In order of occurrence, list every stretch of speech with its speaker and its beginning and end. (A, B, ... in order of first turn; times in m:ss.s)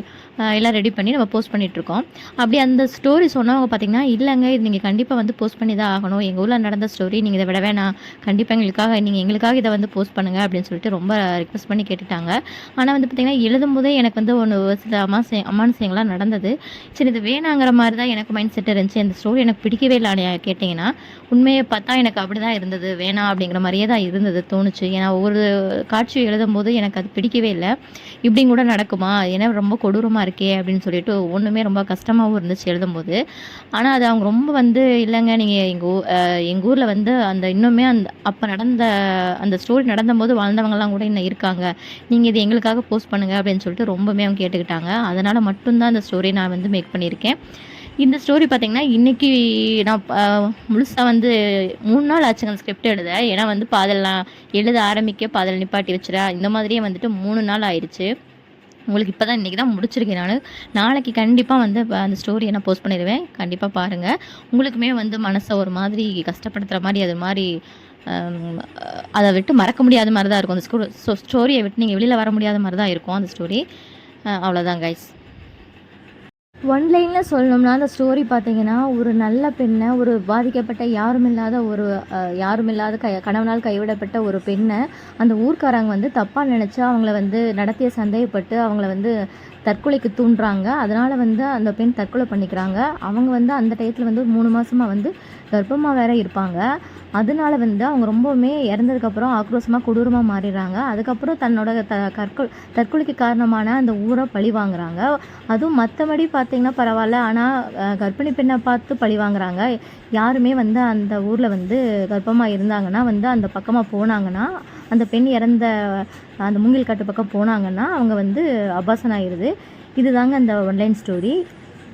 0:00.4-0:27.7 A
0:28.2-0:33.2 A
0:33.8-0:47.4 A
0:48.0-0:58.1 A
0:58.9-1:07.5 A
1:08.1-1:13.6 A
1:14.3-1:15.1 A
1:16.7-1:29.1 A
1:29.7-1:36.6 A
1:37.2-2:01.4 A